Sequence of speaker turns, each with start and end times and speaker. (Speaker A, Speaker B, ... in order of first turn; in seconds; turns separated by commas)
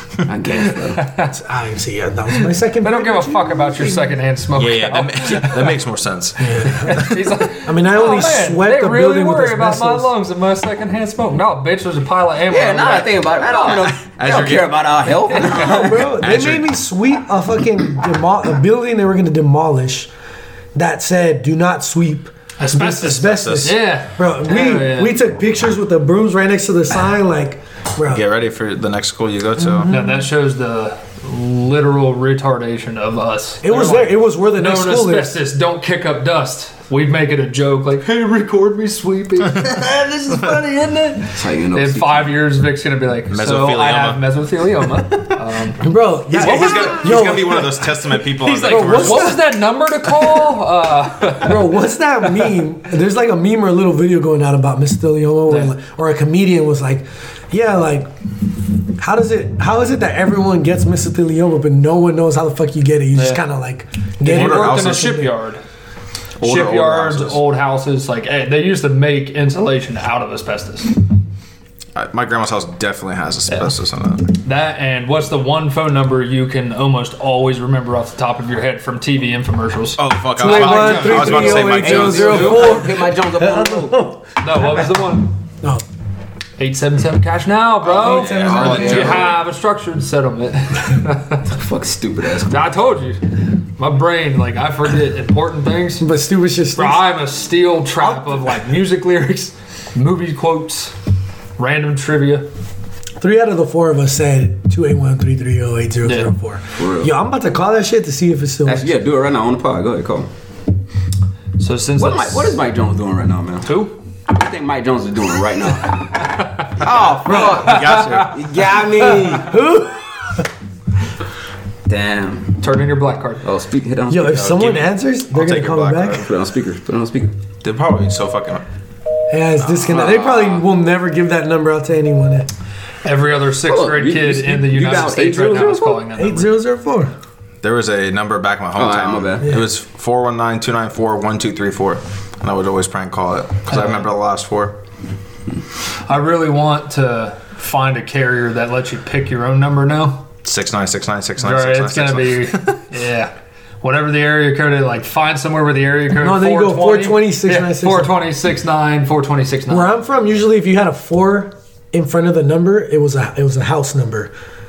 Speaker A: 0.3-1.1, Speaker B: 0.6-1.3, Speaker C: 1.3-4.2, Speaker B: 2.8-5.8, Speaker D: 4.5-7.2, Speaker C: 6.4-10.1, Speaker B: 6.6-13.9, Speaker A: 12.5-16.2, Speaker D: 14.1-14.9, Speaker B: 15.3-15.6, Speaker C: 15.4-20.1, Speaker D: 15.7-16.7, Speaker C: 20.8-28.2, Speaker B: 22.6-25.2, Speaker D: 23.1-23.8, Speaker D: 28.1-29.9, Speaker C: 29.6-30.3, Speaker B: 29.9-47.2, Speaker C: 33.6-35.4, Speaker A: 41.3-42.3, Speaker D: 43.3-44.2, Speaker C: 45.8-47.9, Speaker D: 46.3-49.4, Speaker B: 48.4-51.7, Speaker C: 48.5-49.5, Speaker C: 51.4-58.1, Speaker B: 55.5-55.7, Speaker C: 59.0-65.3, Speaker B: 63.1-63.4, Speaker D: 64.2-65.2, Speaker B: 64.2-65.6, Speaker D: 66.4-67.4, Speaker B: 66.4-71.0, Speaker D: 72.0-74.3, Speaker B: 74.4-82.8, Speaker D: 80.0-82.7, Speaker C: 80.4-85.0, Speaker A: 81.6-84.0, Speaker B: 84.4-85.4, Speaker B: 86.6-91.5, Speaker D: 87.8-89.3, Speaker C: 88.0-89.3, Speaker A: 88.2-89.3, Speaker A: 91.5-92.7, Speaker B: 92.5-96.1, Speaker C: 96.0-97.1, Speaker B: 96.8-100.9, Speaker C: 98.0-98.5, Speaker B: 101.6-102.5, Speaker C: 103.2-108.9, Speaker B: 106.0-106.3, Speaker A: 106.8-107.1, Speaker A: 108.7-110.3, Speaker B: 111.6-112.6, Speaker A: 112.0-119.6, Speaker B: 113.6-113.9, Speaker B: 116.2-116.7, Speaker D: 116.8-118.4, Speaker B: 117.5-118.0, Speaker C: 119.0-120.5, Speaker A: 121.9-122.6, Speaker B: 122.6-123.4, Speaker A: 123.4-124.7, Speaker C: 124.1-126.3, Speaker D: 124.4-126.3, Speaker A: 126.1-127.3, Speaker D: 127.6-128.6, Speaker C: 129.3-132.5, Speaker D: 129.8-130.2, Speaker A: 129.9-130.6, Speaker B: 133.0-136.6, Speaker A: 133.7-136.0, Speaker C: 136.2-137.1, Speaker D: 137.6-144.8, Speaker A: 138.8-139.5, Speaker C: 139.4-139.7, Speaker B: 143.7-144.1, Speaker B: 146.1-150.2, Speaker D: 150.4-152.8, Speaker B: 151.4-159.9, Speaker C: 156.2-158.2, Speaker C: 159.7-164.3